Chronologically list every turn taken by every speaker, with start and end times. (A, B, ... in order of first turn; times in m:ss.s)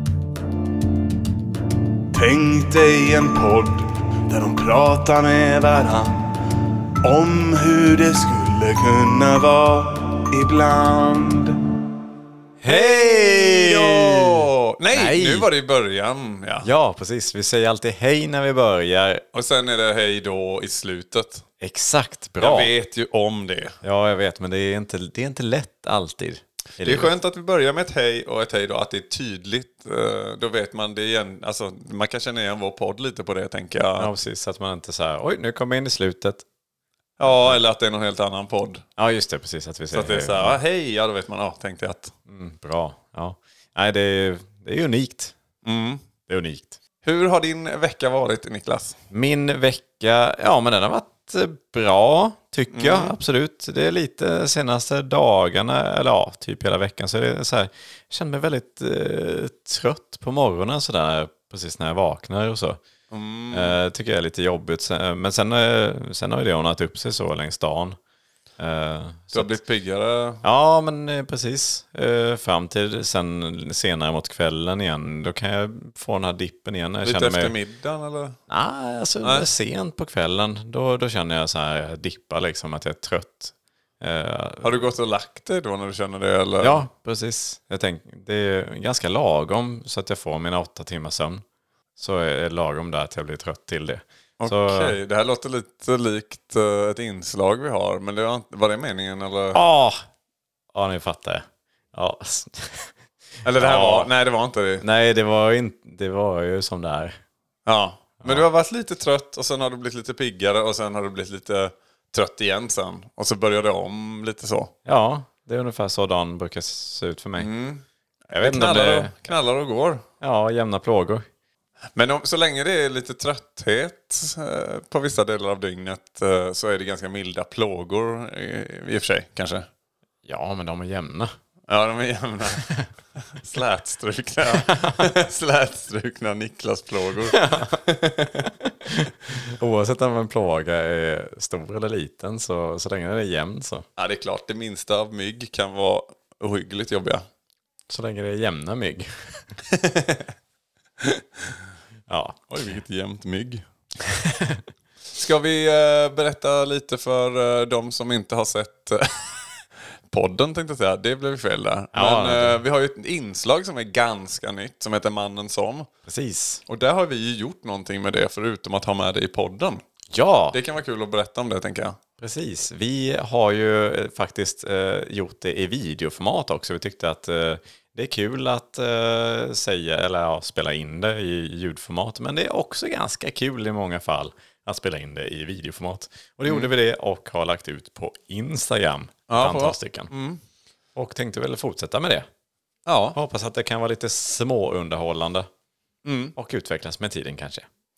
0:02.1-0:06.2 A
0:07.0-0:11.6 A
0:12.6-0:15.5 B
0:12.6-0:16.7 C
0:16.6-0:19.2 B
0:19.3-0:21.4 C
0:21.6-0:22.7 B
0:22.4-0:23.8 C
0:23.8-0:27.1 B
0:26.8-0:34.1 C
0:34.0-0:36.4 B
0:37.2-0:38.8 C
0:37.2-0:37.6 B
0:39.0-0:40.6 B
0:39.9-0:42.1 C
0:42.3-0:45.3 B
0:45.6-0:46.0 C
0:46.3-0:46.8 B
0:47.0-0:49.0 C
0:49.1-1:02.8 B
0:52.7-0:53.2 C
1:03.1-1:03.8 C
1:03.5-1:08.0 B
1:08.6-1:09.6 B
1:09.3-1:10.4 C
1:10.4-1:17.5 B
1:17.0-1:18.4 C
1:18.5-1:24.8 B
1:19.2-1:19.5 C
1:24.6-1:26.8 C
1:26.6-1:31.4 B
1:32.0-1:35.0 B
1:34.4-1:39.6 C
1:39.5-1:40.0 B
1:40.7-1:42.9 B
1:43.4-1:44.8 C
1:43.5-1:44.1 B
1:44.8-1:47.2 B
1:47.6-1:54.7 C
1:48.2-1:48.4 B
1:54.8-1:57.5 B
1:57.4-2:00.0 C
1:58.3-1:59.2 B
2:00.2-2:01.2 B
2:01.9-2:09.7 C
2:10.2-2:11.3 B
2:11.7-2:18.5 C
2:14.5-2:15.1 B
2:17.3-2:17.8 B
2:18.9-2:23.8 B
2:24.0-2:27.2 C
2:27.9-2:29.4 B
2:29.7-2:30.2 C
2:31.0-2:31.6 C
2:32.1-2:32.4 B
2:32.5-2:33.6 C
2:35.1-2:45.9 C
2:41.9-2:42.6 B
2:46.0-2:46.6 B
2:46.7-2:49.8 C
2:50.1-2:50.6 B
2:50.5-2:52.0 C
2:52.2-3:10.1 B
3:09.3-3:10.4 C
3:10.9-3:12.3 B
3:12.8-3:13.2 C
3:13.1-3:15.5 B
3:16.0-3:16.3 C
3:16.4-3:17.7 B